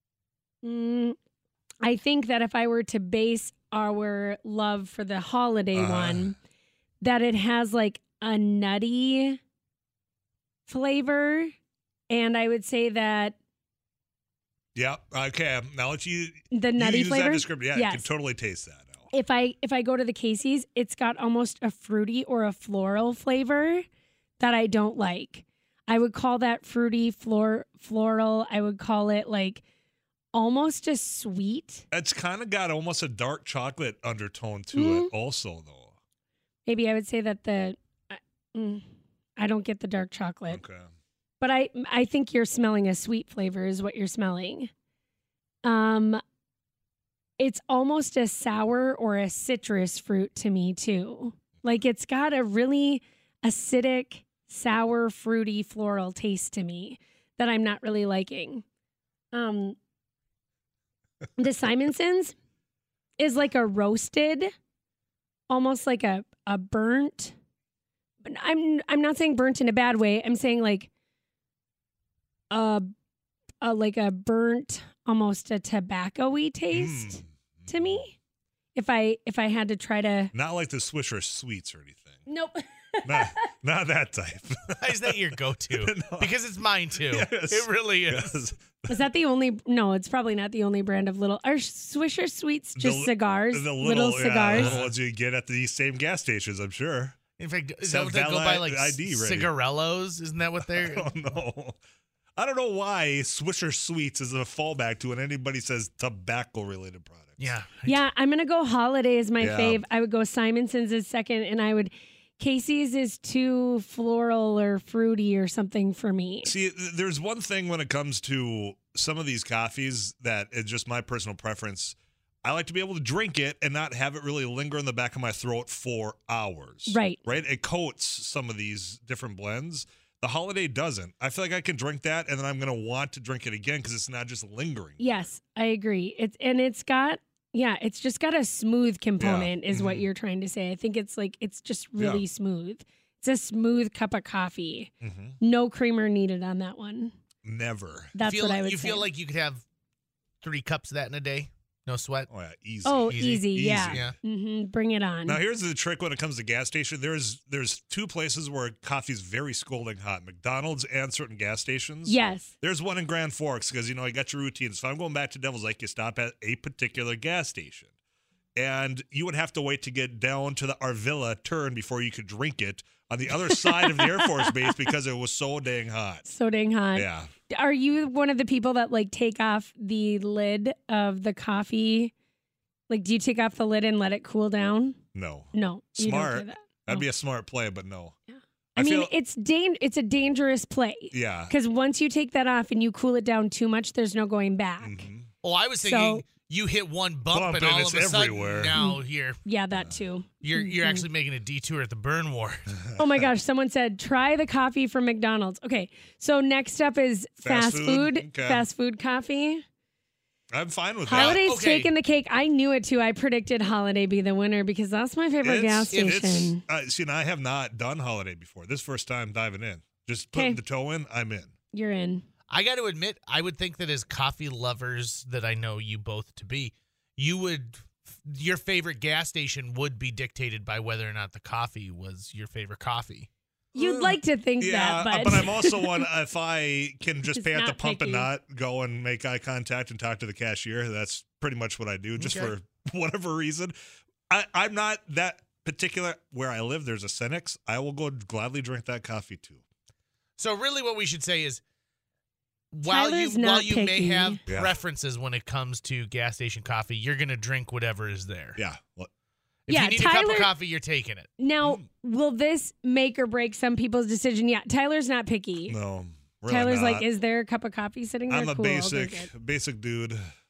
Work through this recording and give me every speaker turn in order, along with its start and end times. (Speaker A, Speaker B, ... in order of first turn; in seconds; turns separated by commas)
Speaker A: 0.6-1.2, Speaker A: 1.8-6.4, Speaker B: 5.7-6.3, Speaker A: 7.0-9.4, Speaker A: 10.7-11.5, Speaker A: 12.1-13.4, Speaker B: 14.7-19.1, Speaker A: 16.5-18.1, Speaker A: 19.1-23.8, Speaker A: 24.4-29.6, Speaker A: 30.3-31.8, Speaker B: 31.9-35.9, Speaker A: 34.7-35.1, Speaker A: 36.6-38.8, Speaker A: 39.4-40.6, Speaker B: 40.5-40.9, Speaker A: 41.4-44.7, Speaker A: 45.6-46.2, Speaker A: 47.4-58.6, Speaker A: 59.3-59.8, Speaker A: 61.4-62.3, Speaker A: 63.2-64.5, Speaker A: 65.5-67.3, Speaker A: 68.2-70.9, Speaker A: 72.5-72.9, Speaker A: 73.6-78.2, Speaker B: 76.7-78.0, Speaker A: 78.7-80.3, Speaker B: 80.3-82.2, Speaker A: 82.2-83.4, Speaker B: 83.0-85.2, Speaker C: 84.8-88.3, Speaker B: 85.7-86.3, Speaker B: 87.1-89.0, Speaker A: 88.9-94.8, Speaker B: 92.8-97.2, Speaker C: 94.5-94.9, Speaker C: 97.4-101.1, Speaker B: 97.8-99.5, Speaker B: 100.6-101.8, Speaker B: 102.4-107.6, Speaker C: 107.4-108.0, Speaker A: 107.8-116.5, Speaker B: 109.4-109.8, Speaker B: 116.4-135.0, Speaker A: 126.9-127.2, Speaker A: 135.0-147.1, Speaker B: 139.2-140.1, Speaker B: 142.0-142.2, Speaker B: 145.0-145.4, Speaker B: 147.4-148.2, Speaker A: 148.1-149.1, Speaker C: 148.2-149.6, Speaker C: 150.4-152.3, Speaker B: 152.3-154.1, Speaker A: 152.8-155.4, Speaker C: 153.1-154.1, Speaker B: 155.3-167.9, Speaker A: 162.1-162.5, Speaker B: 168.6-176.2, Speaker A: 173.3-174.9, Speaker A: 176.2-182.1, Speaker B: 176.9-177.3, Speaker A: 182.9-185.0, Speaker B: 185.1-188.2, Speaker A: 185.5-187.1, Speaker A: 188.3-195.1, Speaker B: 188.8-189.1, Speaker B: 191.1-191.5, Speaker B: 194.8-195.3, Speaker C: 195.4-199.4, Speaker A: 195.8-196.2, Speaker B: 197.3-198.8, Speaker A: 198.7-201.1, Speaker B: 199.7-200.0, Speaker C: 200.4-202.7, Speaker B: 202.7-203.3, Speaker A: 203.0-209.6, Speaker B: 207.4-208.7, Speaker B: 210.5-211.4, Speaker A: 211.1-216.6, Speaker C: 211.1-211.9, Speaker B: 215.4-221.5, Speaker C: 215.9-216.2, Speaker A: 220.3-220.6, Speaker A: 221.7-222.2, Speaker C: 222.5-233.3, Speaker A: 233.7-236.1, Speaker B: 233.8-243.7, Speaker A: 237.3-238.3, Speaker C: 242.2-242.5, Speaker B: 244.3-249.6, Speaker C: 250.4-251.6, Speaker C: 252.7-258.6, Speaker A: 252.8-254.4, Speaker B: 254.5-254.8, Speaker B: 258.6-259.1, Speaker C: 259.7-261.3, Speaker A: 259.7-260.5, Speaker A: 261.4-265.8, Speaker B: 265.7-267.1, Speaker A: 266.5-269.3, Speaker B: 268.3-270.2